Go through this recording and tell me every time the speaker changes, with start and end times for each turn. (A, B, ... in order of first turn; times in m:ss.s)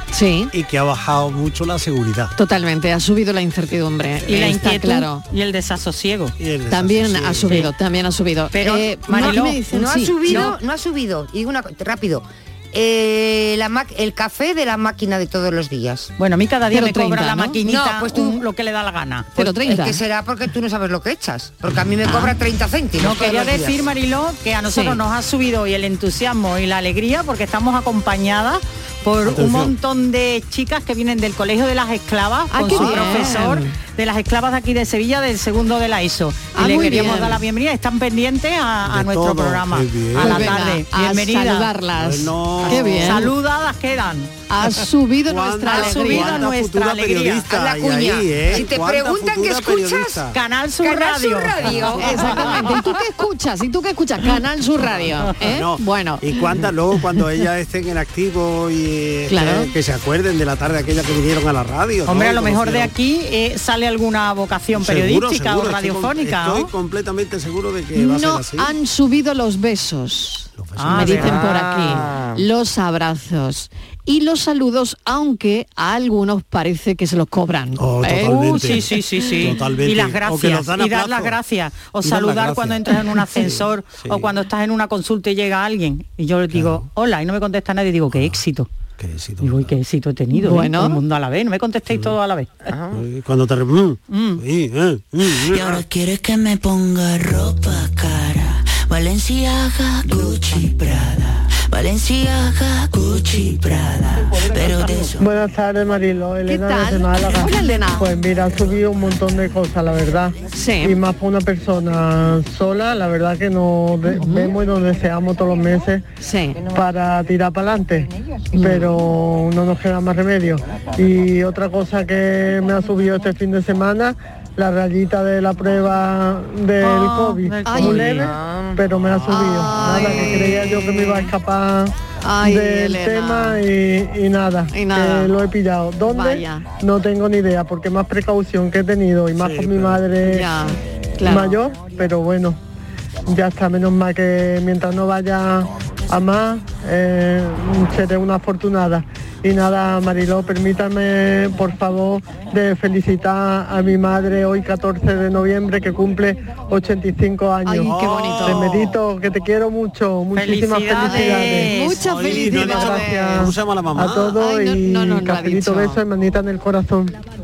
0:00.1-0:00.5 A
0:00.5-0:02.3 B
0:02.4-0:05.2 A
0:04.3-0:06.3 C
0:06.4-0:07.7 B
0:06.7-0:10.5 A
0:07.4-0:07.7 C
0:08.5-0:09.6 C
0:08.6-0:16.1 D
0:10.2-0:10.6 C
0:16.2-0:19.4 C
0:16.7-0:17.6 A
0:17.7-0:18.4 D
0:19.4-0:20.0 A
0:19.4-0:23.8 D
0:22.1-0:22.3 A
0:23.0-0:41.7 C
0:24.7-0:25.0 A
0:29.3-0:29.7 B
0:32.5-0:33.7 A
0:36.5-0:37.4 A
0:38.8-0:40.6 B
0:40.2-0:43.3 A
0:42.0-0:43.3 B
0:42.6-0:44.3 C
0:44.5-0:46.4 A
0:45.3-0:50.4 B
0:45.7-0:47.5 C
0:47.5-0:50.3 D
0:50.3-0:52.4 C
0:50.8-0:52.8 D
0:52.0-0:56.4 A
0:55.4-1:02.9 B
0:59.3-0:59.7 A
1:02.1-1:06.7 C
1:04.7-1:08.7 B
1:08.0-1:18.6 A
1:10.6-1:11.4 B
1:10.8-1:11.4 C
1:17.8-1:21.4 B
1:18.2-1:28.7 C
1:22.0-1:24.3 B
1:26.5-1:26.9 B
1:28.1-1:28.4 B
1:29.0-1:29.7 B
1:29.4-1:32.5 C
1:30.4-1:31.0 A
1:31.9-1:32.2 B
1:32.7-1:33.0 D
1:32.9-1:35.8 B
1:34.1-1:34.4 C
1:35.5-1:45.2 E
1:45.2-1:56.0 F
1:46.5-1:48.1 A
1:50.5-1:51.0 A
1:54.1-1:54.5 A
1:56.2-1:56.6 A
1:56.6-2:20.6 F
1:58.5-1:59.0 A
2:06.8-2:08.3 C
2:07.6-2:08.2 A
2:08.2-2:08.8 D
2:09.3-2:11.3 A
2:09.9-2:10.4 D
2:12.2-2:13.6 A
2:14.7-2:15.3 A
2:16.0-2:16.6 A
2:19.4-2:20.0 B
2:20.3-2:21.6 A
2:21.2-2:22.6 F
2:23.2-2:41.7 F
2:37.7-2:38.9 A
2:37.9-2:39.0 B
2:40.3-2:42.0 C
2:40.9-2:43.5 A
2:42.0-2:44.3 B
2:42.3-2:47.1 F
2:44.3-2:46.0 A